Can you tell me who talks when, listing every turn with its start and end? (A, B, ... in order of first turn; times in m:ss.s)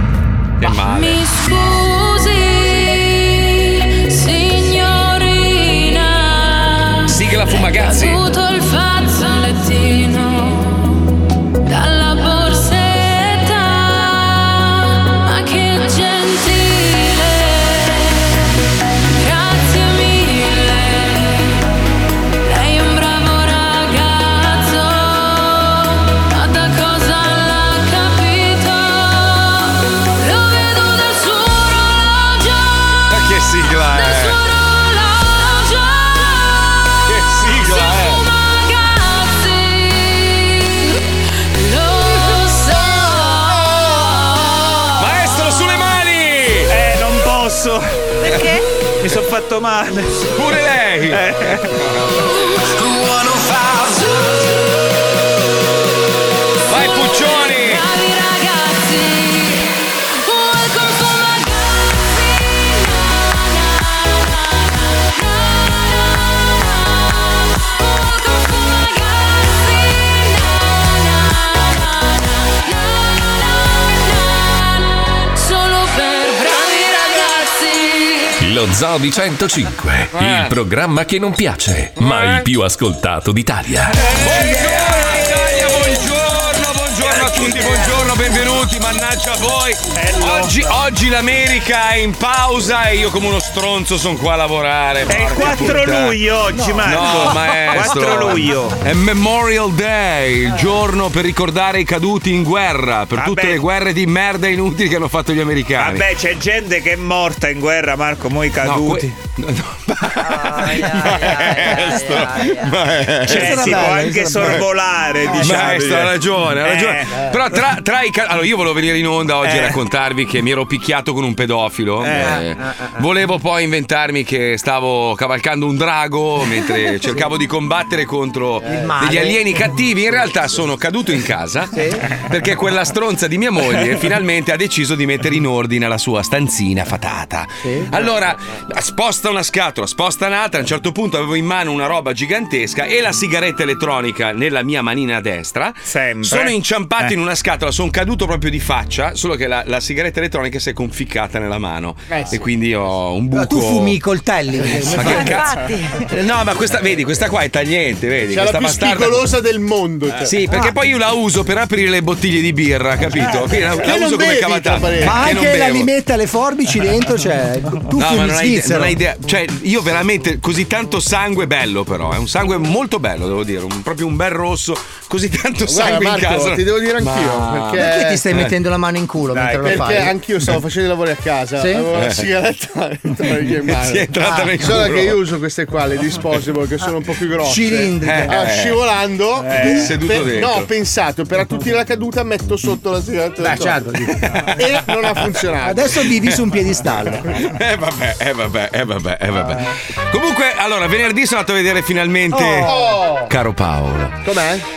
0:00.6-0:01.3 A
0:00.6-0:11.0 B
0:07.1-0:08.3 A
0:11.6-0:18.5 B
0:19.1-0:21.6 B
0:22.4-0:33.2 B
0:33.1-0:34.4 A
0:33.8-0:45.0 B
0:37.0-0:38.3 A
0:45.0-0:46.7 A
0:46.7-0:48.0 C
0:48.2-0:48.6 D
0:49.0-0:50.3 C
0:50.4-0:52.2 A
0:51.1-0:51.7 C
0:53.1-0:53.9 C
0:56.7-0:57.8 A
0:57.6-1:18.4 B
1:18.4-1:24.1 E
1:20.2-1:20.5 A
1:24.2-1:46.1 A
1:25.1-1:25.5 C
1:27.0-1:27.9 C
1:29.9-1:30.8 C
1:35.1-1:38.8 C
1:36.5-1:38.2 F
1:43.1-1:43.6 C
1:45.8-1:49.1 C
1:48.6-1:54.6 A
1:50.2-1:52.7 D
1:53.2-1:54.7 F
1:53.2-1:57.2 C
1:55.4-2:34.0 A
1:59.4-1:59.8 C
2:02.0-2:02.4 C
2:02.2-2:02.9 F
2:08.6-2:09.5 F
2:11.7-2:12.0 F
2:17.6-2:17.9 F
2:25.9-2:27.2 C
2:33.3-2:35.5 F
2:34.6-2:39.3 A
2:35.2-2:36.1 D
2:38.3-2:40.6 G
2:40.2-2:45.9 A
2:43.7-2:45.3 G
2:45.0-2:49.0 F
2:48.0-2:58.5 A
2:55.7-2:58.2 G
2:57.7-3:00.2 F
2:59.3-3:00.0 C
2:59.6-3:13.8 G
3:01.6-3:01.9 F
3:02.0-3:02.2 A
3:03.7-3:05.2 A
3:04.2-3:04.5 F
3:07.4-3:08.4 F
3:08.0-3:08.8 A
3:09.4-3:09.9 C
3:09.6-3:10.7 A
3:13.4-3:14.3 F
3:13.6-3:14.6 A
3:14.6-3:16.0 G
3:15.6-3:17.2 F
3:17.1-3:24.2 A
3:22.3-3:22.8 F
3:22.6-3:23.3 G
3:24.2-3:24.6 G